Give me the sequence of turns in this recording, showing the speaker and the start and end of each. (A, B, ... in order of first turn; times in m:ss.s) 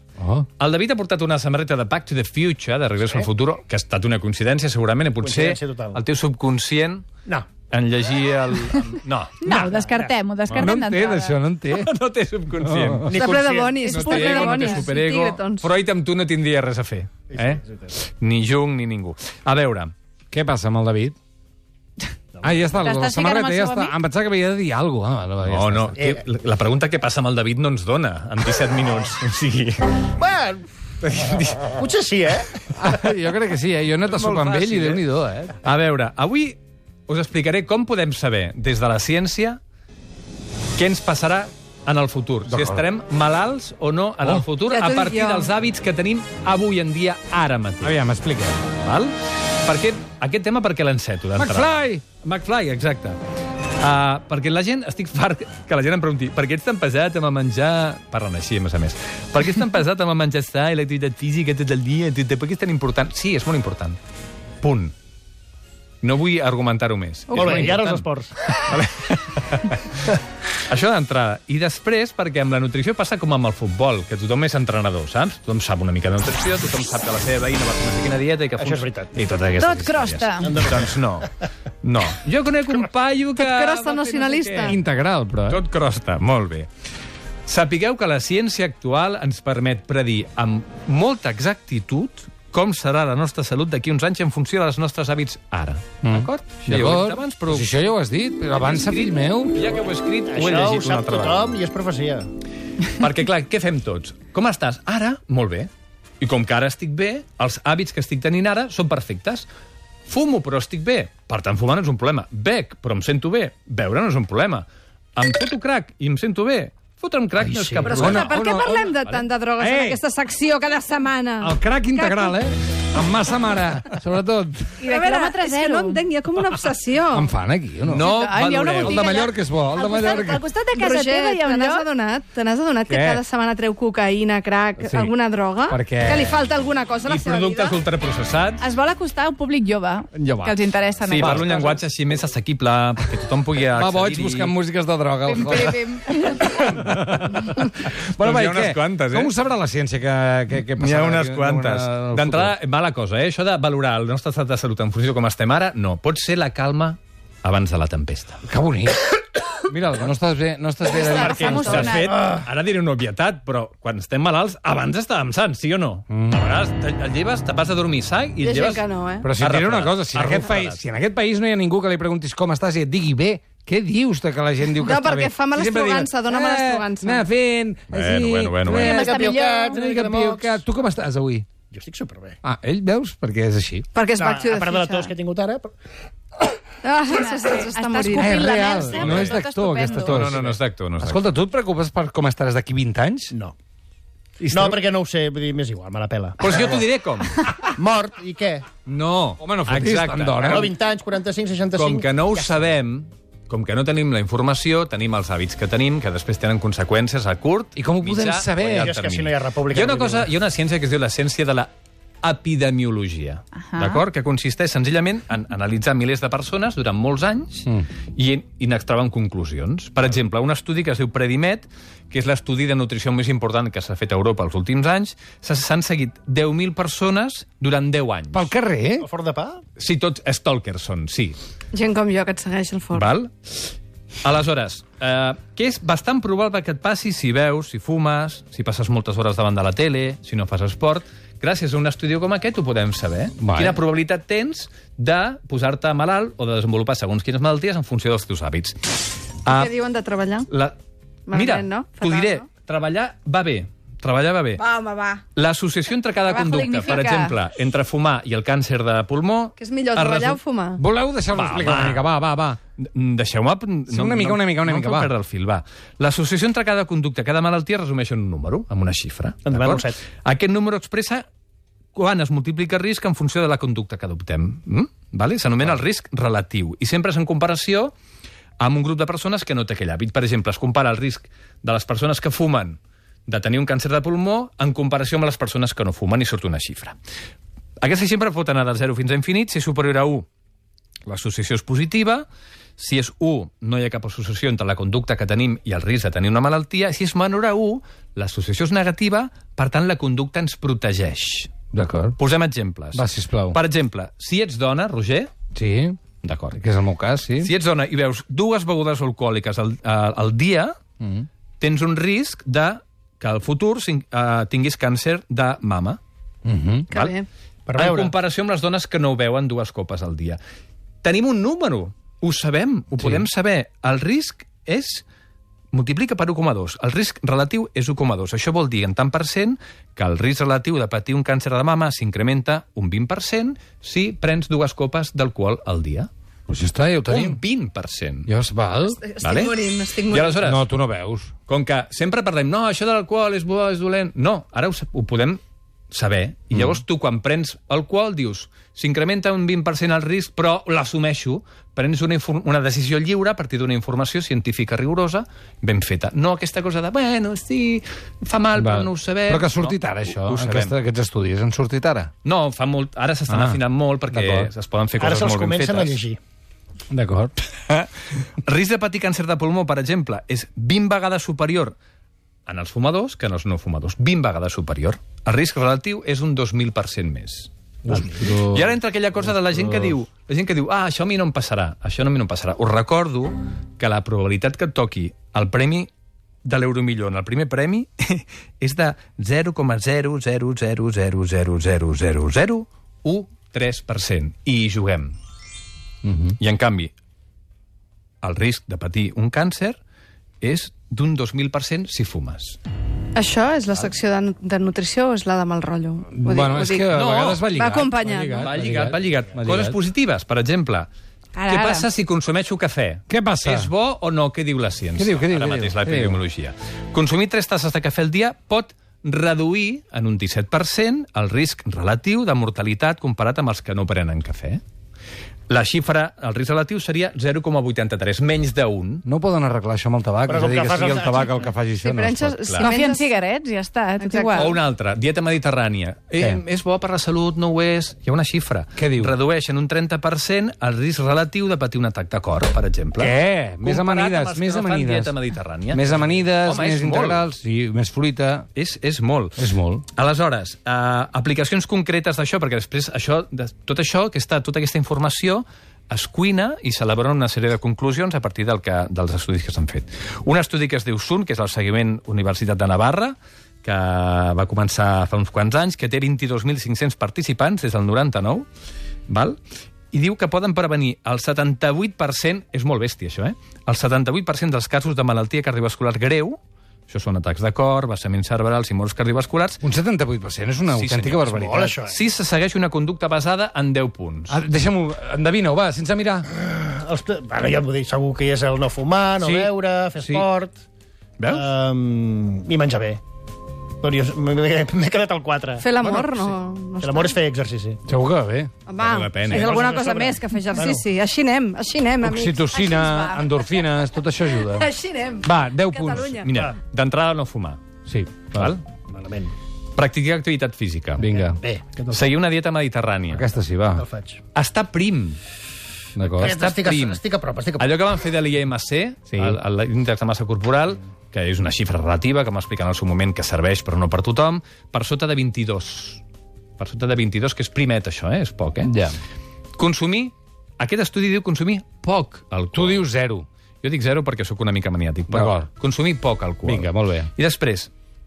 0:00.2-0:00.5 A
0:00.6-0:07.1 B
0:05.2-0:06.0 C
0:07.7-0:09.5 B
0:09.4-0:11.4 D
0:09.4-0:10.1 C
0:10.5-0:11.9 A
0:11.7-0:13.3 B
0:12.6-0:13.0 A
0:13.0-0:13.9 C
0:13.1-0:15.7 E
0:13.8-0:14.8 D
0:13.9-0:19.9 B
0:17.3-0:17.9 C
0:20.3-0:21.2 A
0:22.4-0:22.8 C
0:22.4-0:26.0 A
0:22.8-0:23.9 D
0:25.4-0:30.1 B
0:30.2-0:30.7 C
0:31.0-0:31.8 B
0:31.7-0:32.7 C
0:32.7-0:35.5 A
0:34.0-0:35.0 B
0:35.6-0:39.6 B
0:40.8-0:48.0 B
0:42.5-0:42.8 A
0:44.6-0:45.5 E
0:47.8-0:48.7 A
0:48.7-0:49.1 B
0:49.6-0:53.2 B
0:51.4-0:52.0 A
0:53.8-1:04.0 B
1:04.6-1:04.9 B
1:06.0-1:09.8 B
1:07.3-1:08.6 C
1:10.7-1:21.3 B
1:18.6-1:19.1 C
1:19.6-1:20.6 D
1:20.4-1:21.0 C
1:21.8-1:24.8 B
1:23.4-1:24.8 E
1:24.6-1:25.6 A
1:25.5-1:26.7 B
1:27.4-1:37.7 B
1:36.0-1:39.8 A
1:38.6-1:41.5 B
1:40.3-1:42.3 C
1:43.0-1:45.7 B
1:46.2-1:49.5 B
1:50.1-1:58.3 B
1:57.4-1:58.1 C
1:57.8-2:02.4 E
1:57.8-1:59.1 A
1:59.6-2:00.0 A
2:01.4-2:04.8 A
2:04.8-2:06.0 D
2:04.8-2:07.3 E
2:07.1-2:08.1 A
2:07.8-2:09.1 B
2:08.0-2:11.9 D
2:08.8-2:10.4 A
2:10.7-2:17.8 E
2:12.9-2:13.2 A
2:14.8-2:15.1 A
2:15.7-2:16.3 A
2:17.0-2:18.6 B
2:18.6-2:21.8 D
2:20.1-2:24.5 B
2:21.2-2:21.4 A
2:23.7-2:25.8 A
2:25.2-2:26.7 D
2:26.6-2:29.3 B
2:27.2-2:32.5 A
2:30.8-2:38.4 B
2:38.4-2:39.1 A
2:39.7-2:42.0 A
2:40.9-2:42.2 D
2:41.0-2:48.8 B
2:41.3-2:41.9 E
2:46.1-2:46.5 A
2:48.4-2:49.3 E
2:49.2-2:59.2 A
2:49.4-2:50.8 B
2:54.8-2:57.2 E
2:57.9-2:59.0 B
2:58.6-3:00.6 C
2:58.8-2:59.8 D
2:59.7-3:01.5 A
3:01.7-3:02.4 C
3:02.4-3:03.9 A
3:03.9-3:05.1 E
3:04.2-3:05.7 C
3:06.8-3:08.4 E
3:07.1-3:10.2 D
3:08.1-3:13.3 A
3:10.0-3:11.2 B
3:14.5-3:16.4 C
3:16.4-3:17.5 B
3:16.5-3:16.7 A
3:17.7-3:18.7 C
3:18.8-3:20.7 B
3:19.4-3:20.7 A
3:20.4-3:22.6 C
3:21.7-3:31.7 B
3:27.8-3:28.9 A
3:28.6-3:30.3 C
3:32.2-3:48.5 B
3:33.7-3:34.0 D
3:48.3-3:49.1 A
3:49.0-3:49.6 C
3:49.8-3:51.4 B
3:51.7-3:53.1 E
3:52.9-3:53.7 B
3:54.2-4:09.7 B
4:03.4-4:03.8 A
4:09.5-4:10.5 E
4:10.5-4:10.8 B
4:11.3-4:12.5 E
4:11.3-4:14.6 B
4:14.6-4:15.2 E
4:15.3-4:20.4 B
4:16.2-4:17.4 D
4:19.6-4:20.8 E
4:20.8-4:22.6 A
4:21.3-4:22.1 B
4:22.8-4:31.2 B
4:23.9-4:25.1 A
4:29.4-4:30.0 C
4:31.9-4:37.9 B
4:38.6-4:47.0 B
4:47.8-4:50.2 B
4:51.0-4:52.2 B
4:52.8-5:01.5 B
5:01.7-5:02.2 A
5:02.2-5:05.3 B
5:02.9-5:03.6 A
5:05.5-5:06.0 A
5:06.2-5:06.6 B
5:06.5-5:07.5 A
5:07.4-5:10.8 B
5:11.0-5:11.3 A
5:11.6-5:16.0 B
5:16.4-5:16.9 A
5:16.9-5:17.3 E
5:17.7-5:18.2 C
5:17.7-5:20.4 B
5:21.0-5:25.0 B
5:25.7-5:36.1 B
5:36.5-5:37.4 A
5:37.1-5:38.3 B
5:38.2-5:39.0 A
5:38.8-5:40.5 E
5:39.2-5:40.6 B
5:40.4-5:41.3 A
5:41.5-5:45.4 B
5:45.9-6:00.7 B
5:58.5-6:02.1 A
6:02.2-6:06.0 B
6:03.3-6:04.5 A
6:05.0-6:06.2 C
6:06.9-6:07.3 A
6:07.7-6:11.8 B
6:12.5-6:17.5 B
6:17.8-6:20.0 A
6:17.9-6:18.3 C
6:18.4-6:25.9 B
6:26.4-6:35.1 B
6:36.0-6:36.4 A
6:36.4-6:36.9 B
6:38.2-6:39.8 B
6:40.4-6:42.6 B
6:43.1-6:48.5 E
6:46.1-6:49.8 A
6:46.9-6:47.4 B
6:48.3-6:50.9 B
6:51.4-6:51.9 D
6:51.4-7:04.6 B
6:53.1-6:53.7 A
6:55.0-6:56.2 A
7:05.5-7:09.0 B
7:09.0-7:12.4 A
7:10.3-7:11.4 C
7:11.8-7:13.1 E
7:12.6-7:14.6 D
7:14.0-7:14.6 E
7:14.4-7:27.2 B
7:18.8-7:19.2 A
7:23.0-7:25.1 A
7:25.7-7:28.5 A
7:28.5-7:48.5 B
7:29.4-7:29.8 A
7:49.1-7:49.4 B
7:49.9-7:56.4 B
7:56.9-7:59.6 B
7:59.6-8:01.8 A
8:00.7-8:01.3 B
8:01.3-8:02.0 C
8:01.9-8:04.4 B
8:04.3-8:06.3 A
8:06.3-8:10.6 C
8:09.2-8:10.2 A
8:11.2-8:11.5 B
8:11.2-8:13.0 C
8:13.8-8:17.8 C
8:15.6-8:17.2 E
8:17.9-8:18.5 A
8:18.6-8:22.5 E
8:18.8-8:19.5 B
8:19.3-8:20.8 C
8:22.0-8:24.7 A
8:22.5-8:23.4 D
8:24.2-8:26.3 E
8:25.2-8:26.3 A
8:26.2-8:27.6 B
8:27.9-8:28.4 A
8:28.3-8:28.6 B
8:28.9-8:29.3 C
8:29.8-8:31.0 B
8:31.0-8:31.4 A
8:31.1-8:32.1 C
8:31.9-8:33.2 B
8:33.1-8:33.8 A
8:33.8-8:34.2 C
8:34.3-8:35.2 B
8:36.0-8:36.4 A
8:36.1-8:37.8 C
8:36.2-8:37.0 B
8:37.6-8:46.0 B
8:39.1-8:39.4 A
8:46.6-8:48.7 B
8:48.6-8:49.0 A
8:49.6-8:52.8 B
8:52.5-8:53.2 A
8:53.6-8:57.7 B
8:55.1-8:55.5 A
8:56.4-8:57.1 A